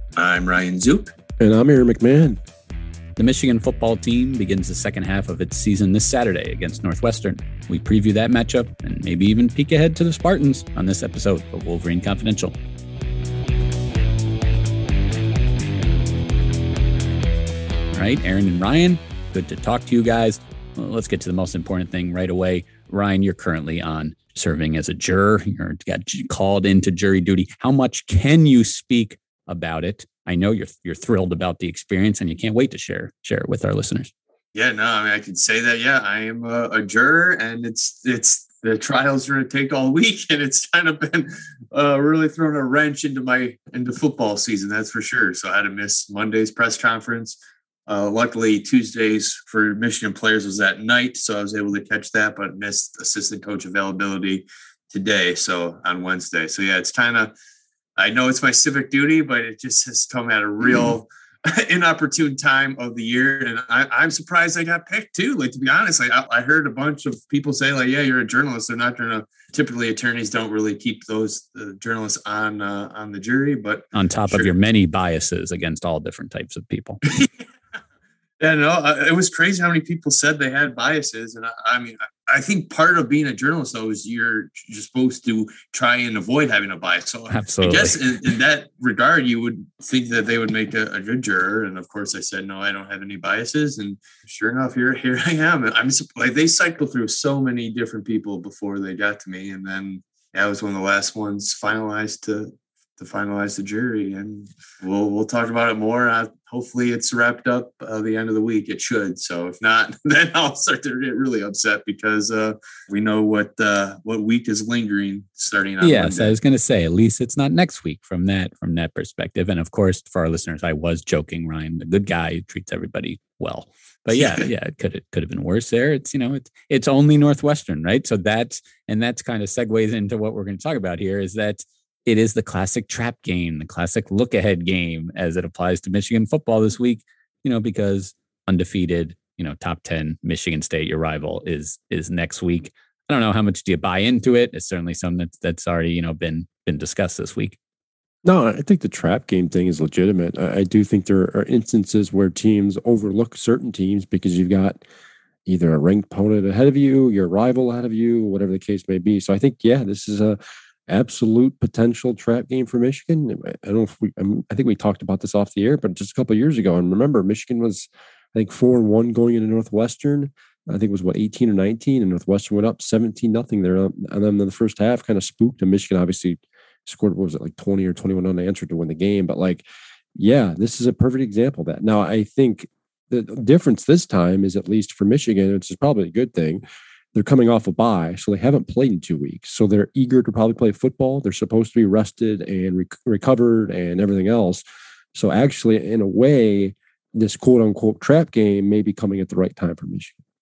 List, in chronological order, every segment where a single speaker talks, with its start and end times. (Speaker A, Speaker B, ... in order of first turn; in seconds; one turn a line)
Speaker A: 0.1-1.1
Speaker B: 1.4-2.4
Speaker C: 3.2-12.5
Speaker C: 17.9-34.1
Speaker A: 34.5-57.3
Speaker A: 58.0-74.5
Speaker C: 73.9-77.0
Speaker A: 78.4-116.3
Speaker C: 87.3-88.0
Speaker C: 115.8-147.6
Speaker A: 124.1-124.4
Speaker B: 148.2-154.8
Speaker B: 155.4-179.6
Speaker B: 180.1-186.6
Speaker B: 187.1-194.6
Speaker B: 195.1-200.2